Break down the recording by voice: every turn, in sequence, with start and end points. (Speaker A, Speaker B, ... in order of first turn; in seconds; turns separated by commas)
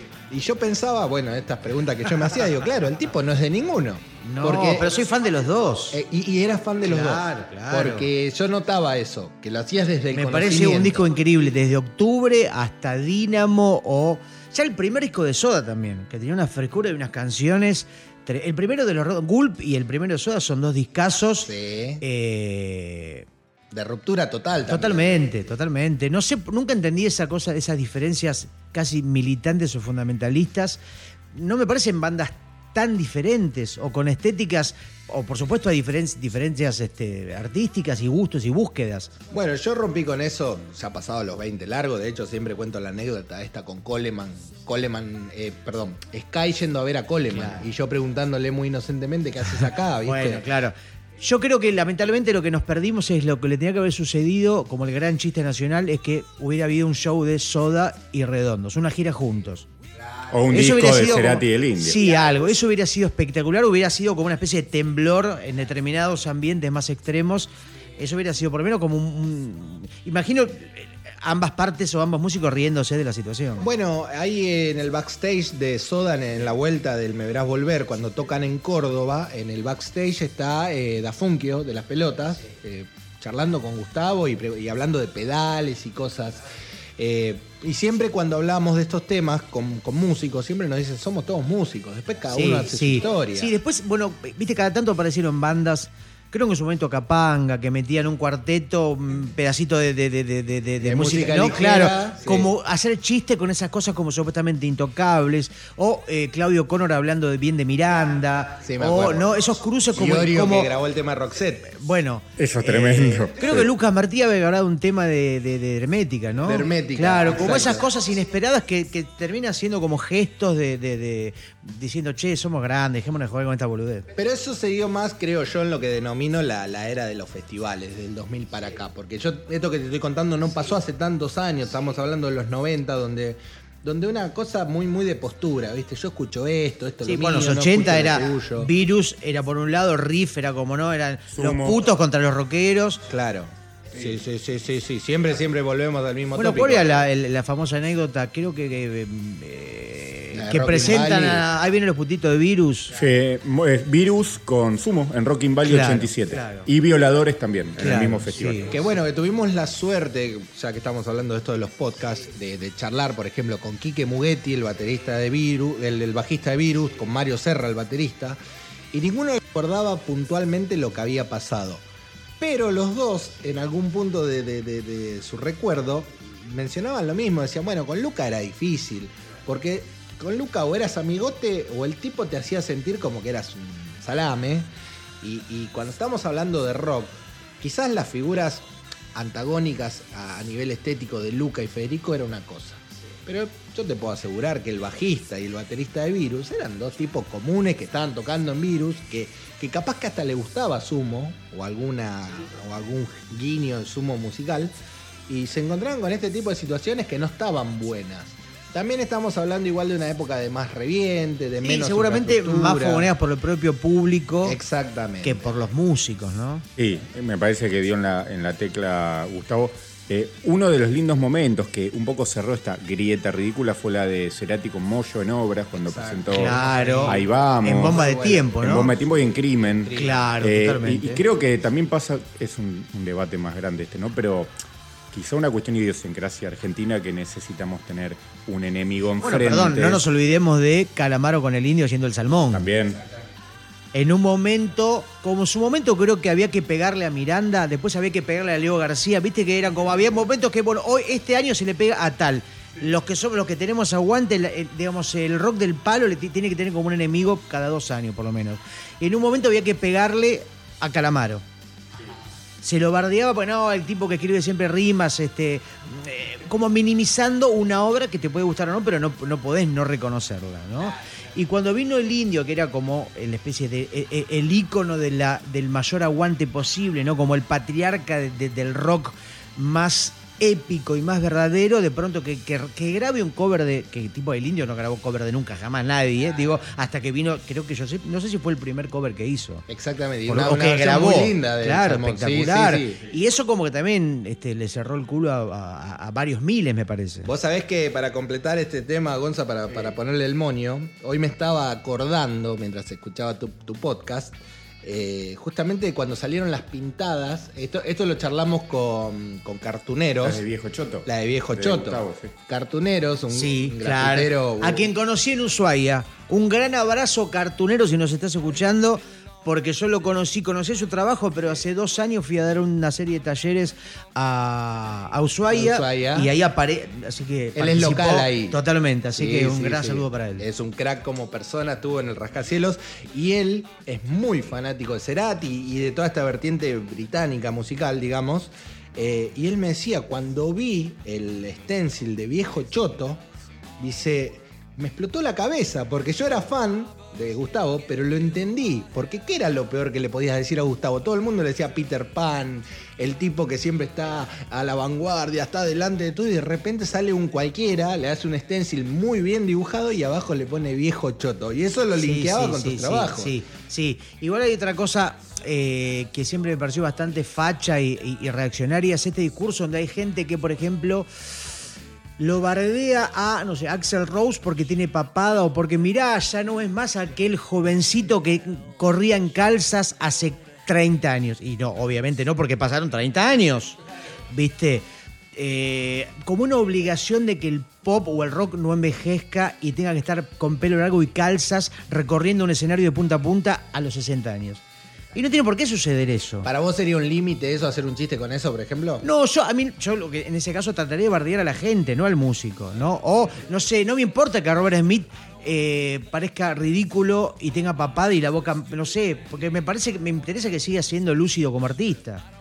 Speaker A: 0.3-4.9, Speaker B: 4.2-6.0, Speaker A: 5.9-11.1, Speaker B: 6.8-8.1, Speaker B: 10.1-23.3, Speaker A: 21.4-22.0, Speaker A: 23.7-25.2, Speaker B: 24.7-30.8, Speaker B: 31.3-39.1, Speaker A: 39.3-50.5, Speaker B: 47.3-47.7, Speaker B: 50.0-59.7, Speaker C: 60.3-62.0, Speaker B: 60.5-73.7, Speaker A: 73.6-86.5, Speaker A: 87.0-93.5, Speaker B: 92.3-110.7, Speaker A: 100.8-102.5, Speaker A: 108.7-109.4, Speaker A: 109.9-111.7, Speaker B: 111.7-124.1, Speaker C: 112.4-113.7, Speaker A: 116.4-117.9, Speaker A: 124.2-138.7, Speaker B: 137.1-143.1, Speaker C: 141.3-141.8, Speaker A: 143.1-147.0, Speaker B: 146.3-152.9, Speaker A: 150.3-151.5, Speaker C: 152.9-158.7, Speaker B: 155.7-156.7, Speaker B: 157.8-158.7, Speaker A: 158.7-168.4, Speaker A: 168.9-171.8, Speaker A: 172.4-184.7, Speaker A: 185.2-204.7, Speaker A: 205.3-213.1, Speaker B: 211.6-214.6, Speaker A: 214.4-215.5, Speaker B: 215.2-216.7, Speaker C: 216.8-234.5, Speaker A: 225.8-230.3, Speaker B: 226.3-228.9, Speaker B: 229.9-231.2, Speaker C: 235.1-240.0, Speaker B: 239.2-242.7, Speaker C: 242.5-243.0, Speaker B: 243.9-261.4, Speaker B: 262.6-289.7, Speaker A: 289.7-293.0, Speaker B: 290.3-297.3, Speaker A: 297.2-310.4, Speaker C: 310.2-312.3, Speaker A: 311.1-314.9, Speaker B: 313.3-330.4, Speaker A: 325.5-326.3, Speaker A: 327.6-328.6, Speaker A: 329.2-343.2, Speaker A: 343.8-363.4, Speaker B: 362.0-371.5, Speaker B: 372.2-383.8, Speaker B: 384.3-394.6, Speaker B: 395.1-396.5, Speaker A: 396.4-399.1, Speaker B: 399.0-412.2